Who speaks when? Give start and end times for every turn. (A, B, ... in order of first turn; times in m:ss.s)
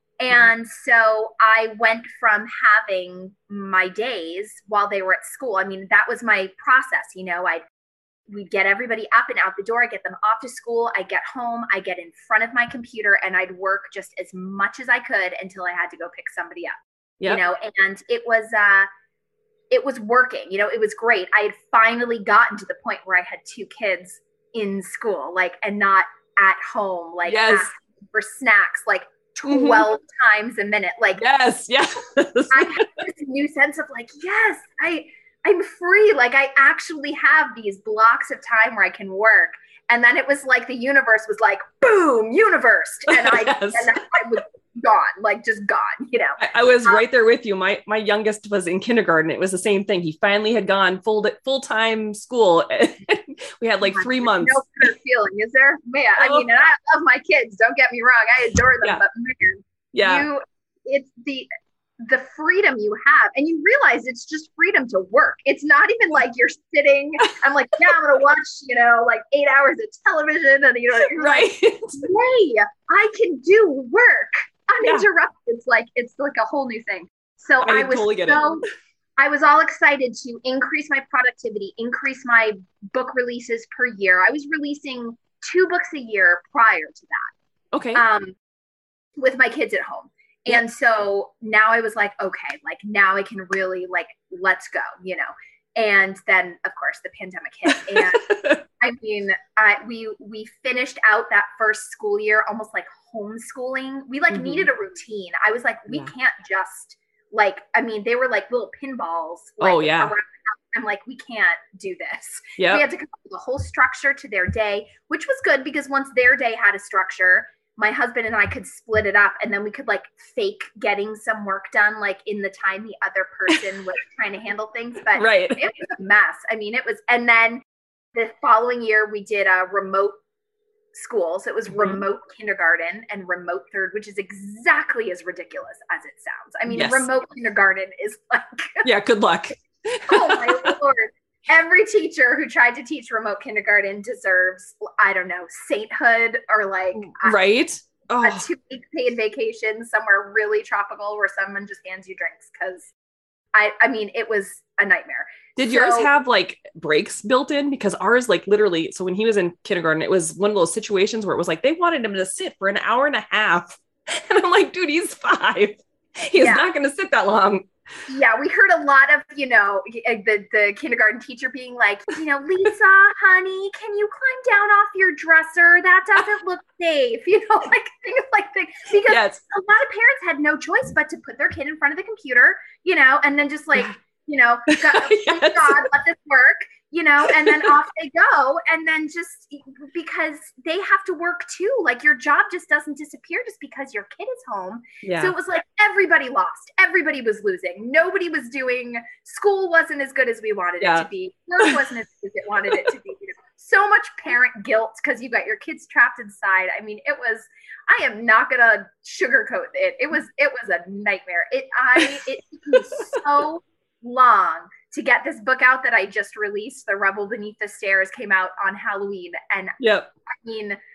0:00.2-0:07.6 A
0:08.3-0:18.9 A
0:19.7-0:31.2 A
0:27.2-0:27.7 B
0:29.5-0:29.9 B
0:31.2-0:32.9 B
0:32.5-0:47.0 A
0:43.1-0:44.2 B
0:46.4-0:54.9 B
0:53.8-1:01.5 A
0:56.2-0:56.5 B
0:59.9-1:00.2 B
1:02.0-1:18.6 A
1:11.0-1:12.0 B
1:17.6-1:18.6 B
1:19.2-1:27.3 A
1:27.7-1:28.0 B
1:27.9-1:28.3 A
1:29.2-1:38.3 A
1:37.7-1:38.6 B
1:38.8-2:07.6 A
1:44.3-1:44.7 B
1:49.6-1:50.1 B
1:52.6-1:52.8 B
2:05.1-2:05.6 B
2:08.1-2:10.1 A
2:10.9-2:18.8 A
2:11.7-2:12.0 B
2:16.7-2:17.0 B
2:18.8-2:20.7 B
2:20.1-2:27.4 A
2:26.9-2:28.5 B
2:28.2-2:32.9 A
2:33.5-2:36.1 A
2:35.6-2:47.7 B
2:46.4-2:46.7 A
2:48.1-3:40.8 A
2:59.1-2:59.4 B
3:04.7-3:05.8 B
3:07.2-3:07.7 B
3:15.0-3:15.3 B
3:20.8-3:21.1 B
3:21.6-3:21.9 B
3:39.8-3:40.1 B